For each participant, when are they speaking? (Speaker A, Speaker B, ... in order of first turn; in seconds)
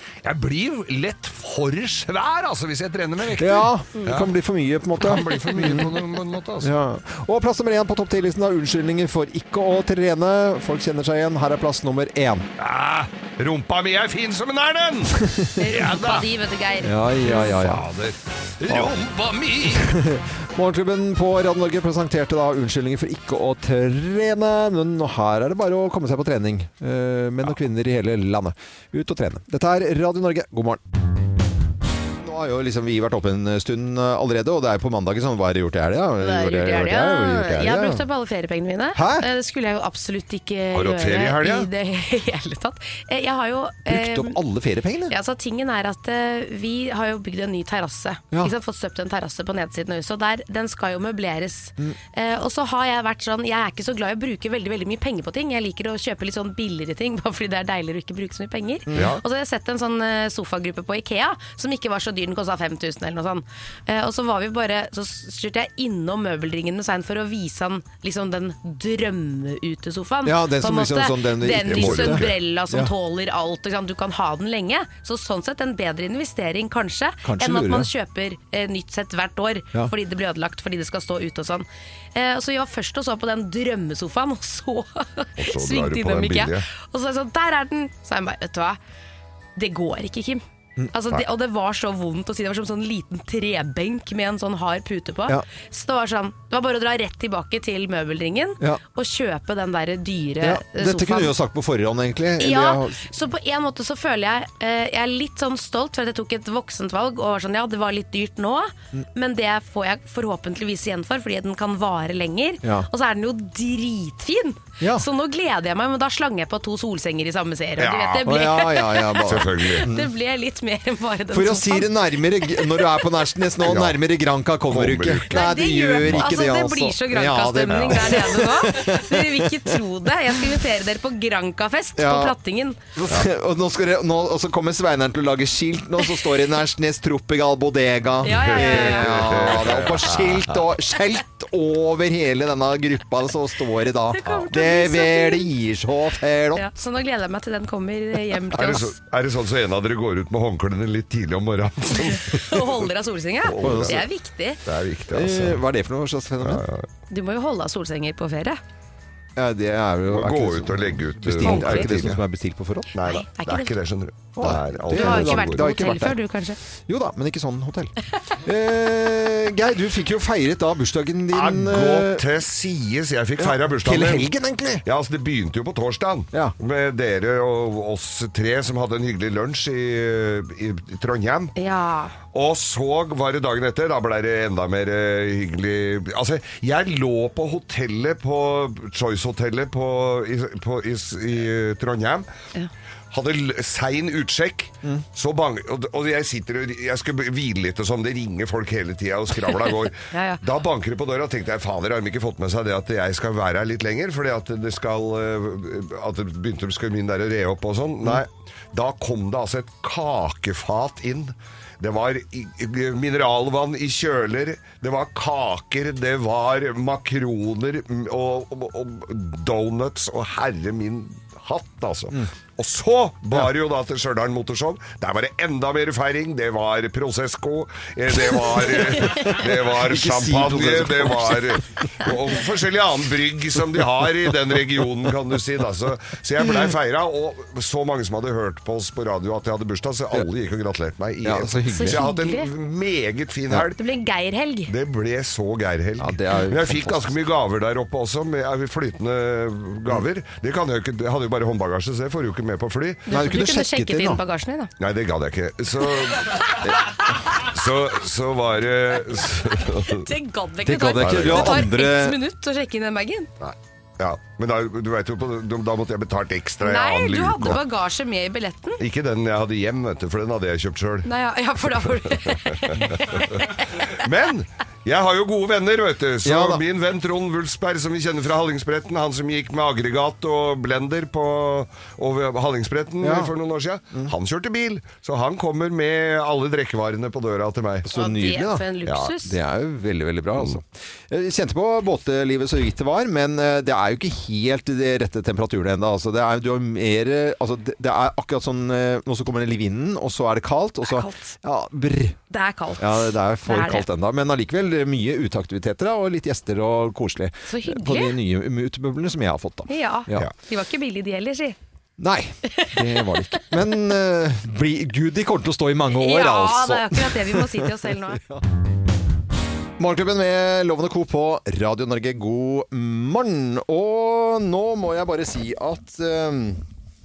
Speaker A: 0.2-4.3, 5.0-6.7, 12.6-16.3, 17.2-19.9, 40.7-41.7, 59.0-59.2, 71.7-72.4, 85.4-86.7, 117.8-118.5, 119.2-119.9, 123.6-124.0, 124.7-125.3, 126.0-126.3, 127.7-128.2, 138.3-140.6, 148.5-152.7, 153.4-154.1, 154.7-155.6, 156.4-156.9, 160.1-162.2, 162.9-165.7, 171.3-174.3, 174.8-181.5, 182.3-192.3, 193.1-243.8, 244.7-253.0, 254.8-260.1, 261.0-261.6, 263.4-267.6, 268.8-271.1, 272.2-287.9
Speaker B: 3.2-6.0, 6.6-12.5, 15.2-15.4, 16.8-17.9, 19.7-30.8, 32.2-38.0, 39.0-39.3, 43.9-45.1, 58.9-59.2, 70.2-72.9, 77.2-77.9, 100.4-103.0, 112.6-112.9, 114.8-115.1, 118.2-120.1, 121.3-129.8, 132.0-132.4, 132.9-146.7, 153.6-154.0, 155.1-156.6, 159.4-162.9, 164.4-166.2, 166.9-172.2, 173.4-174.8, 229.0-232.1, 236.4-236.7, 241.2-242.1, 246.0-247.2, 253.1-254.2, 260.6-262.2, 276.2-276.6, 283.0-283.3, 287.9-288.6, 289.2-302.2, 302.8-310.3, 312.0-318.4, 319.8-326.6
Speaker C: 15.6-17.5, 36.2-44.4, 45.1-88.8, 89.6-101.3, 102.4-123.0, 125.3-132.8, 138.2-139.4, 144.1-145.5, 146.6-148.9, 151.9-154.6, 157.1-158.6, 161.4-162.0, 163.1-163.7, 164.9-166.6, 181.6-182.2, 200.1-200.4, 241.7-242.5, 243.7-244.7, 253.1-254.7, 259.8-263.3, 266.6-268.8, 271.1-273.9, 287.9-289.4, 300.8-301.3, 302.3-303.9, 307.5-308.2, 309.7-311.6, 315.9-318.2